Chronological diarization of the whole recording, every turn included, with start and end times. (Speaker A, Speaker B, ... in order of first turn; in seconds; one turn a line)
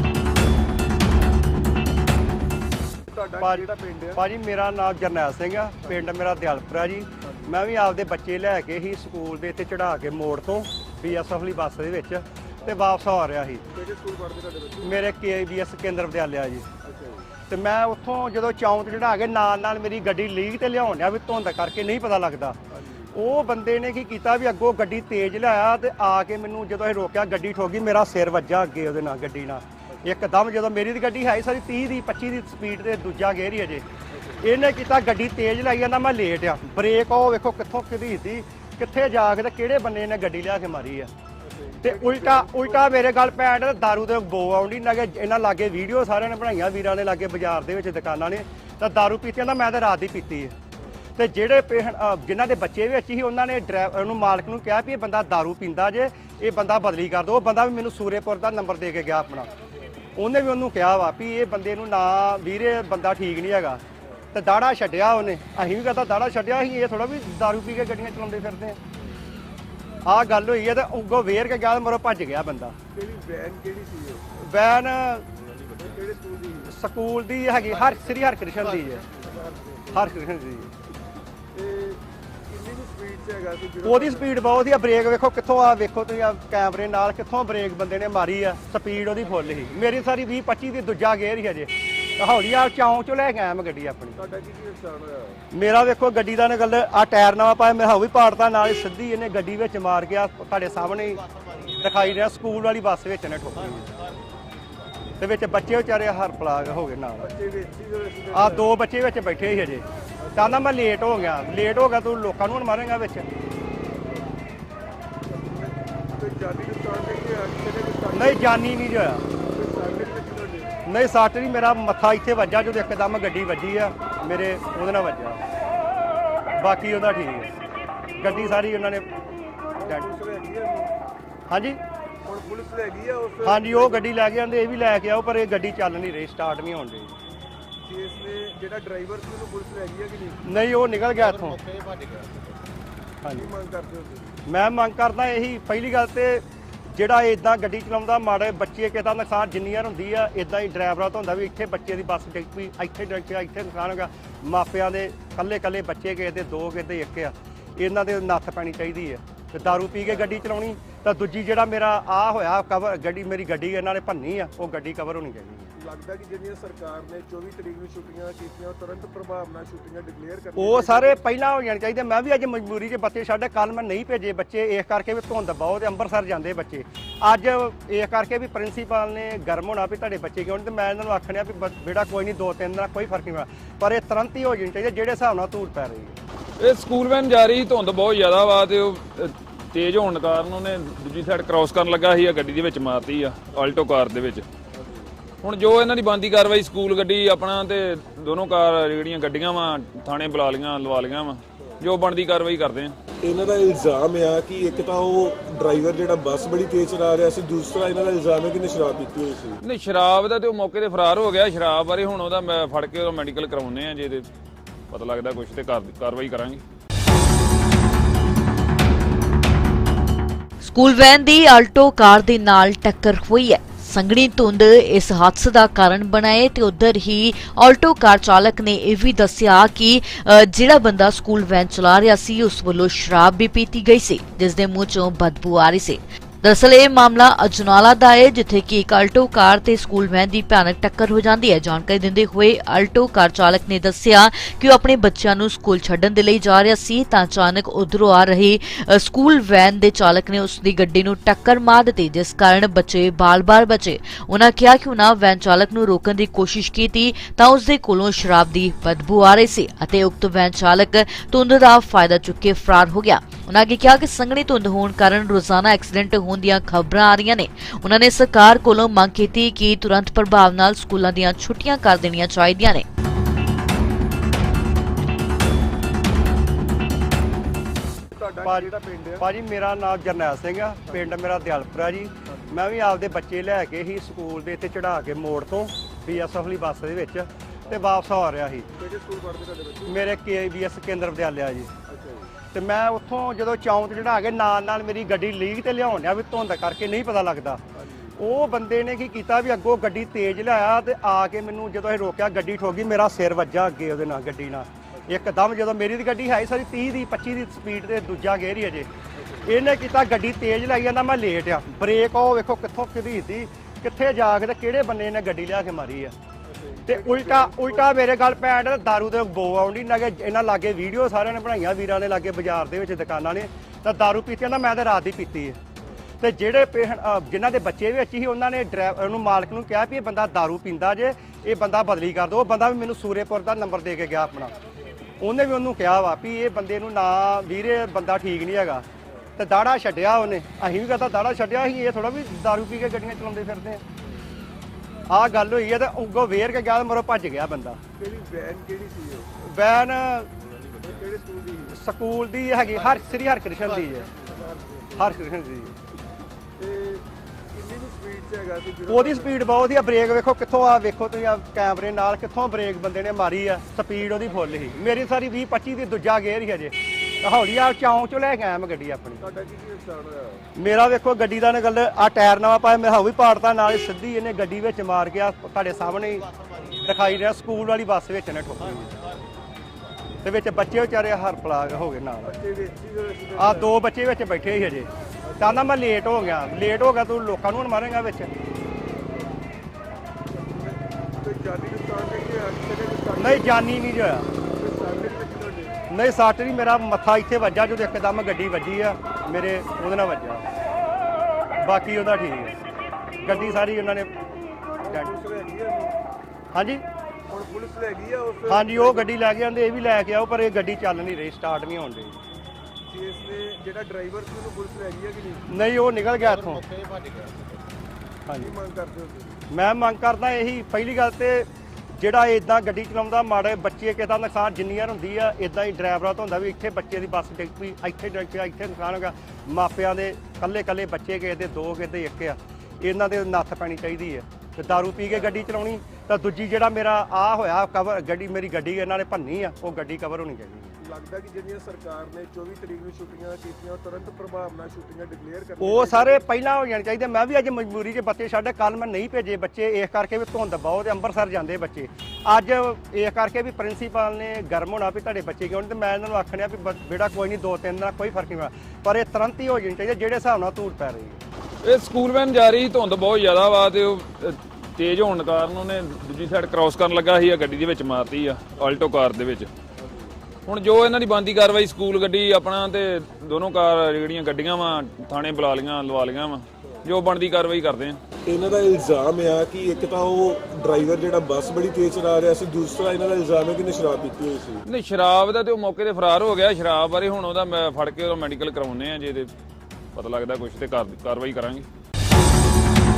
Speaker A: 3.1-4.2
Speaker B: 3.4-13.6
Speaker A: 7.2-7.6
Speaker A: 13.7-15.0
Speaker B: 14.8-16.6
Speaker A: 16.8-17.3
Speaker B: 17.5-22.6
Speaker A: 22.7-23.1
Speaker B: 23.1-33.8
Speaker A: 29.9-30.2
Speaker A: 34.1-34.5
Speaker B: 34.4-41.1
Speaker A: 41.4-43.0
Speaker B: 41.8-50.5
Speaker A: 50.8-51.0
Speaker B: 51.2-59.5
Speaker B: 60.1-63.8
Speaker A: 64.0-64.2
Speaker B: 64.3-68.8
Speaker B: 70.0-72.7
Speaker A: 72.9-74.3
Speaker B: 74.4-75.2
Speaker A: 75.8-76.7
Speaker B: 76.7-79.1
Speaker A: 79.2-80.0
Speaker B: 79.9-80.7
Speaker A: 81.5-84.3
Speaker B: 83.8-94.2
Speaker A: 89.3-89.6
Speaker A: 94.2-95.4
Speaker B: 95.5-101.2
Speaker B: 101.8-103.9
Speaker B: 105.2-107.3
Speaker A: 107.2-108.6
Speaker B: 108.3-113.2
Speaker A: 110.2-110.6
Speaker A: 115.3-118.5
Speaker B: 118.1-119.2
Speaker A: 119.3-120.7
Speaker B: 120.8-125.4
Speaker B: 126.6-127.5
Speaker B: 128.2-129.1
Speaker A: 128.2-128.6
Speaker A: 129.8-130.9
Speaker B: 131.5-131.8
Speaker A: 132.2-134.0
Speaker B: 133.4-137.2
Speaker A: 137.8-140.4
Speaker B: 140.4-141.6
Speaker B: 143.2-143.5
Speaker A: 143.3-144.4
Speaker B: 144.5-165.7
Speaker A: 160.0-160.4
Speaker A: 165.8-171.2
Speaker B: 170.6-186.2
Speaker C: 186.6-194.4
Speaker A: 194.7-195.1
Speaker C: 195.4-202.9
Speaker D: 203.2-209.6
Speaker C: 209.6-214.2
Speaker C: 214.9-216.6
Speaker E: 220.6-272.8
Speaker A: 278.1-279.2
Speaker B: 278.4-288.7
Speaker A: 288.8-290.1
Speaker B: 289.9-291.7
Speaker A: 291.9-292.3
Speaker B: 292.5-297.6
Speaker A: 297.7-298.2
Speaker B: 298.2-308.9
Speaker A: 304.9-305.3
Speaker A: 309.1-309.5
Speaker B: 309.4-316.1
Speaker A: 316.4-317.9
Speaker B: 316.9-325.6
Speaker B: 326.2-334.5
Speaker B: 335.2-338.8
Speaker A: 339.0-339.3
Speaker B: 339.4-343.8
Speaker B: 345.1-347.8
Speaker A: 348.0-349.3
Speaker B: 349.4-350.3
Speaker A: 350.8-351.8
Speaker B: 351.7-354.1
Speaker A: 354.1-355.1
Speaker B: 354.9-355.7
Speaker A: 356.6-359.3
Speaker B: 358.9-369.2
Speaker A: 369.2-370.5
Speaker B: 370.6-376.3
Speaker B: 376.8-378.9
Speaker B: 380.2-382.3
Speaker A: 382.2-383.7
Speaker B: 383.4-384.9
Speaker A: 385.2-385.6
Speaker B: 385.4-388.3
Speaker A: 390.3-393.5
Speaker B: 393.2-394.3
Speaker A: 394.4-395.8
Speaker B: 395.9-400.4
Speaker B: 401.6-402.6
Speaker A: 403.2-403.7
Speaker B: 403.2-404.1
Speaker A: 404.8-406.0
Speaker B: 406.5-406.8
Speaker A: 407.3-409.1
Speaker B: 408.5-412.2
Speaker A: 412.9-415.4
Speaker B: 415.5-416.7
Speaker B: 418.3-418.5
Speaker A: 418.4-419.4
Speaker B: 419.5-440.8
Speaker A: 435.1-435.4
Speaker A: 440.9-446.2
Speaker B: 445.6-461.2
Speaker C: 461.6-469.5
Speaker A: 469.8-470.1
Speaker C: 470.5-478.0
Speaker D: 478.3-484.6
Speaker C: 484.6-489.3
Speaker C: 489.9-491.6